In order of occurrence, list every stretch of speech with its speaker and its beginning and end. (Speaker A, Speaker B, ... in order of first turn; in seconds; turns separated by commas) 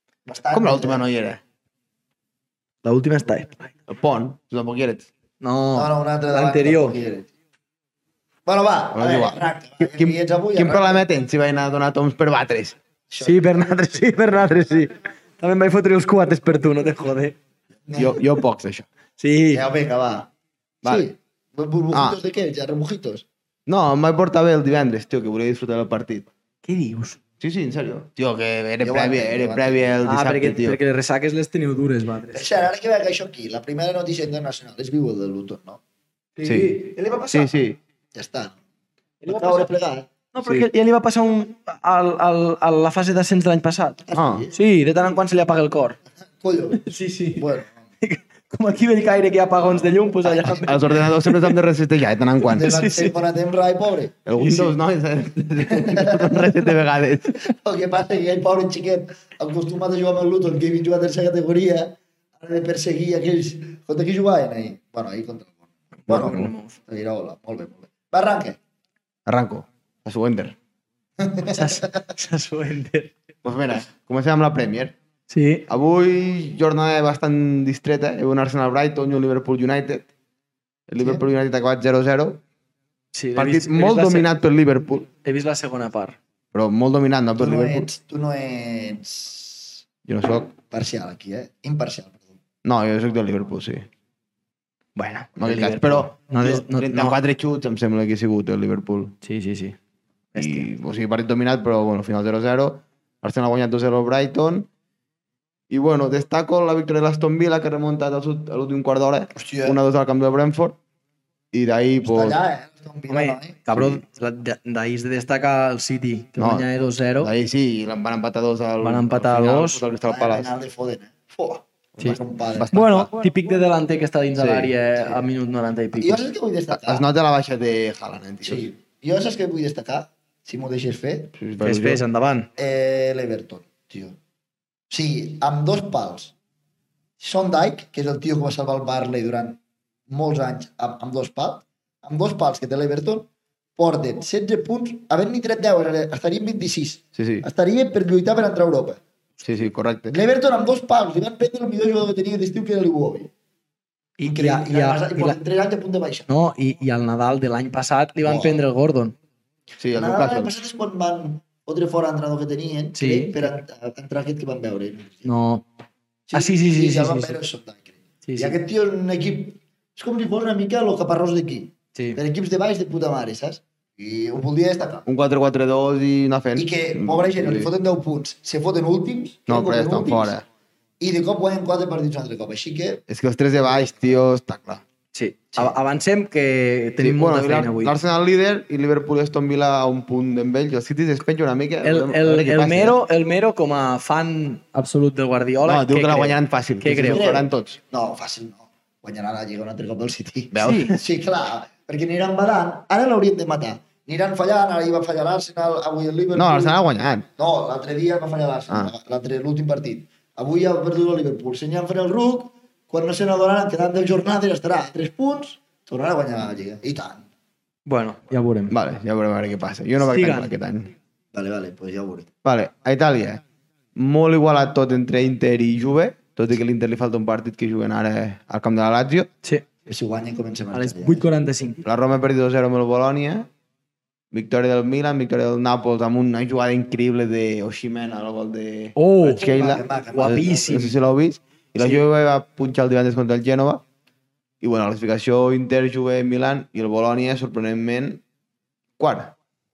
Speaker A: 0.2-1.0, Speaker B: 0.5-1.4, Speaker C: 2.8-3.7, Speaker B: 3.9-5.1, Speaker C: 5.4-7.0, Speaker A: 5.7-7.3, Speaker A: 8.4-11.0, Speaker B: 8.9-12.8, Speaker A: 13.1-13.9, Speaker C: 13.2-17.4, Speaker A: 17.9-18.2, Speaker B: 18.0-18.9, Speaker C: 19.2-19.6, Speaker A: 19.5-20.3, Speaker A: 20.8-23.2, Speaker B: 21.9-22.2, Speaker B: 23.7-26.3, Speaker C: 26.6-27.2, Speaker B: 27.4-30.8, Speaker A: 28.8-30.0, Speaker C: 30.0-32.5, Speaker A: 32.3-35.8, Speaker C: 36.4-36.8, Speaker B: 36.4-37.8, Speaker A: 36.5-37.6, Speaker A: 38.1-38.6, Speaker C: 39.2-39.7, Speaker A: 39.2-40.1, Speaker C: 40.3-44.0, Speaker B: 40.4-40.7, Speaker A: 44.1-44.5, Speaker B: 44.1-44.5, Speaker C: 44.5-46.0, Speaker A: 46.4-47.8, Speaker C: 46.8-47.5, Speaker C: 48.0-51.6, Speaker A: 50.2-50.6, Speaker B: 50.4-52.7, Speaker A: 52.5-54.6, Speaker C: 52.5-53.2, Speaker B: 54.2-57.4, Speaker A: 55.6-56.5, Speaker A: 57.3-65.5, Speaker C: 66.1-66.8, Speaker A: 66.1-68.6, Speaker B: 69.2-70.5, Speaker A: 71.2-72.1, Speaker C: 71.5-73.1, Speaker B: 73.4-75.0, Speaker C: 75.3-75.6, Speaker B: 75.7-80.1, Speaker B: 80.9-82.4, Speaker A: 81.0-81.2, Speaker C: 83.1-84.3, Speaker B: 83.3-85.1, Speaker C: 85.2-86.2, Speaker B: 86.5-87.9, Speaker A: 87.4-89.8, Speaker B: 90.0-90.5, Speaker A: 90.7-92.2, Speaker B: 92.6-93.9, Speaker C: 95.0-97.2, Speaker B: 95.4-99.1, Speaker C: 99.2-99.8, Speaker C: 100.3-100.7, Speaker B: 100.3-104.7, Speaker B: 105.7-110.8, Speaker A: 109.3-109.8, Speaker B: 111.5-112.4, Speaker A: 112.0-113.6, Speaker C: 113.1-117.3, Speaker B: 113.7-114.0, Speaker B: 116.4-116.7, Speaker B: 117.2-120.5, Speaker C: 118.8-119.8, Speaker A: 120.1-122.8, Speaker B: 122.0-123.1, Speaker C: 122.7-126.3, Speaker B: 124.3-124.7, Speaker A: 125.0-125.2, Speaker A: 125.9-127.0, Speaker B: 126.7-128.7, Speaker A: 128.4-131.3, Speaker B: 131.4-132.0, Speaker C: 131.6-132.5, Speaker A: 132.6-134.2, Speaker A: 134.9-136.3, Speaker A: 137.2-149.0, Speaker B: 147.1-147.4, Speaker B: 149.4-150.2, Speaker A: 150.1-153.3, Speaker C: 154.2-155.4, Speaker A: 154.2-156.3, Speaker C: 156.3-159.1, Speaker A: 158.2-158.6, Speaker B: 159.8-160.6, Speaker A: 159.9-165.3, Speaker C: 162.9-163.5, Speaker C: 165.2-165.6, Speaker A: 166.3-175.1, Speaker C: 166.3-167.4, Speaker C: 168.2-168.6, Speaker B: 175.1-177.7, Speaker A: 176.6-180.3, Speaker B: 179.5-180.4, Speaker A: 181.0-183.0, Speaker B: 183.1-184.8, Speaker A: 183.6-184.1, Speaker C: 185.1-187.9, Speaker B: 187.0-193.0, Speaker C: 191.8-197.3, Speaker B: 195.6-197.8, Speaker A: 197.0-206.8, Speaker B: 200.5-201.0, Speaker C: 200.6-200.9, Speaker B: 206.3-207.2, Speaker A: 207.3-217.2, Speaker C: 217.9-218.7, Speaker B: 218.7-220.9, Speaker C: 220.0-220.5, Speaker A: 221.3-222.3, Speaker B: 222.4-223.4, Speaker B: 223.9-229.3, Speaker A: 229.8-231.3, Speaker C: 230.7-231.8, Speaker B: 231.8-233.5, Speaker B: 234.3-243.8, Speaker C: 238.9-240.9, Speaker A: 239.4-240.8, Speaker B: 244.6-248.2, Speaker B: 249.0-249.3